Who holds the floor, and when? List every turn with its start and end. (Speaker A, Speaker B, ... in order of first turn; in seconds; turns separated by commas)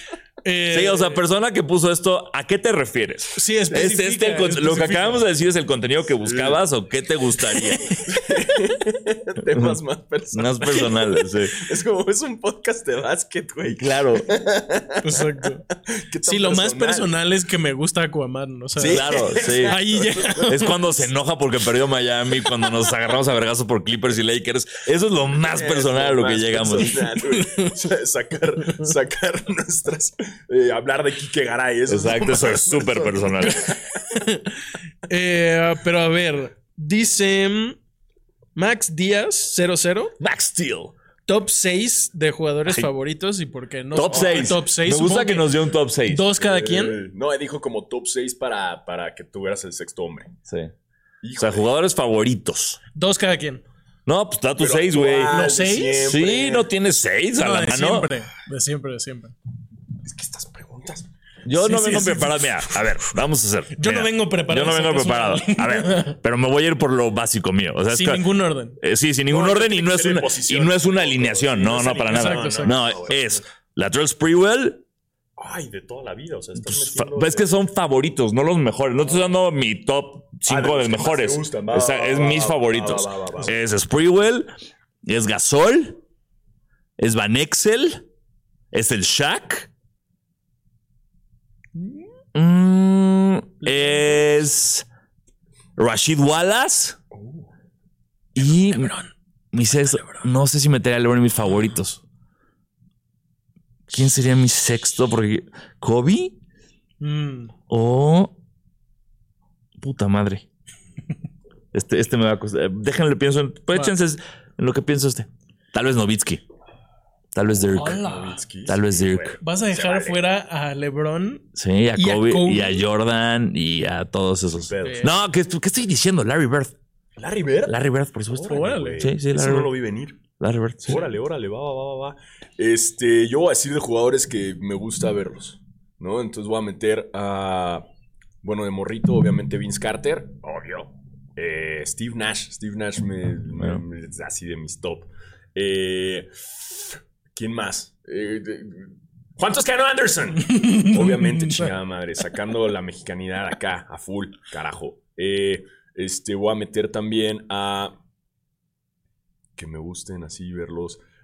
Speaker A: 0.4-1.2, Speaker B: 0.7-7.9, Speaker A: 3.3-5.2, Speaker C: 6.2-6.6, Speaker C: 8.1-10.9, Speaker B: 9.5-9.8, Speaker B: 10.3-11.6, Speaker C: 11.6-17.1, Speaker B: 13.8-14.3, Speaker A: 15.0-15.6, Speaker A: 16.2-21.0, Speaker C: 18.8-20.5, Speaker B: 18.8-19.8, Speaker B: 20.4-27.0, Speaker C: 25.4-33.8, Speaker A: 27.1-27.7, Speaker B: 31.9-33.6, Speaker A: 33.7-37.8, Speaker A: 38.5-40.1, Speaker B: 40.2-40.9, Speaker A: 41.3-45.5, Speaker B: 43.9-46.2, Speaker C: 44.1-44.5, Speaker A: 46.1-47.0, Speaker C: 46.4-50.3, Speaker B: 50.5-50.7, Speaker C: 51.2-51.7, Speaker B: 51.4-52.8, Speaker A: 52.9-53.6, Speaker B: 54.0-55.5, Speaker C: 54.6-56.7, Speaker A: 55.2-56.1, Speaker B: 56.0-58.1, Speaker A: 57.4-59.3, Speaker C: 60.0-61.1, Speaker B: 61.4-68.2, Speaker A: 61.5-62.8, Speaker A: 63.8-66.1, Speaker A: 67.9-68.8, Speaker B: 68.8-74.8, Speaker C: 69.3-73.4, Speaker A: 72.1-72.8, Speaker C: 75.4-77.5, Speaker B: 76.5-84.5, Speaker C: 80.5-83.5, Speaker B: 85.0-86.0, Speaker B: 87.0-88.0, Speaker B: 88.7-89.7, Speaker A: 91.7-92.1, Speaker B: 92.3-94.8, Speaker A: 93.6-94.2, Speaker B: 95.8-97.0, Speaker C: 97.1-97.5, Speaker B: 98.3-98.9, Speaker A: 98.4-99.1, Speaker B: 99.5-102.0, Speaker A: 99.9-100.2, Speaker B: 103.9-106.3, Speaker A: 107.0-107.5, Speaker B: 107.7-108.3, Speaker B: 109.8-110.4, Speaker B: 111.7-116.4, Speaker B: 117.3-118.0, Speaker A: 117.7-118.4, Speaker C: 117.8-120.2, Speaker B: 118.7-119.4, Speaker A: 119.4-122.8, Speaker B: 121.5-126.7, Speaker C: 124.5-125.1, Speaker A: 124.8-125.1, Speaker C: 127.2-127.7, Speaker B: 127.7-129.7, Speaker C: 128.3-130.2, Speaker A: 128.5-129.1, Speaker B: 130.4-131.0, Speaker C: 130.8-137.8, Speaker C: 138.4-157.9, Speaker B: 143.6-143.8, Speaker A: 150.4-151.7, Speaker C: 159.6-161.0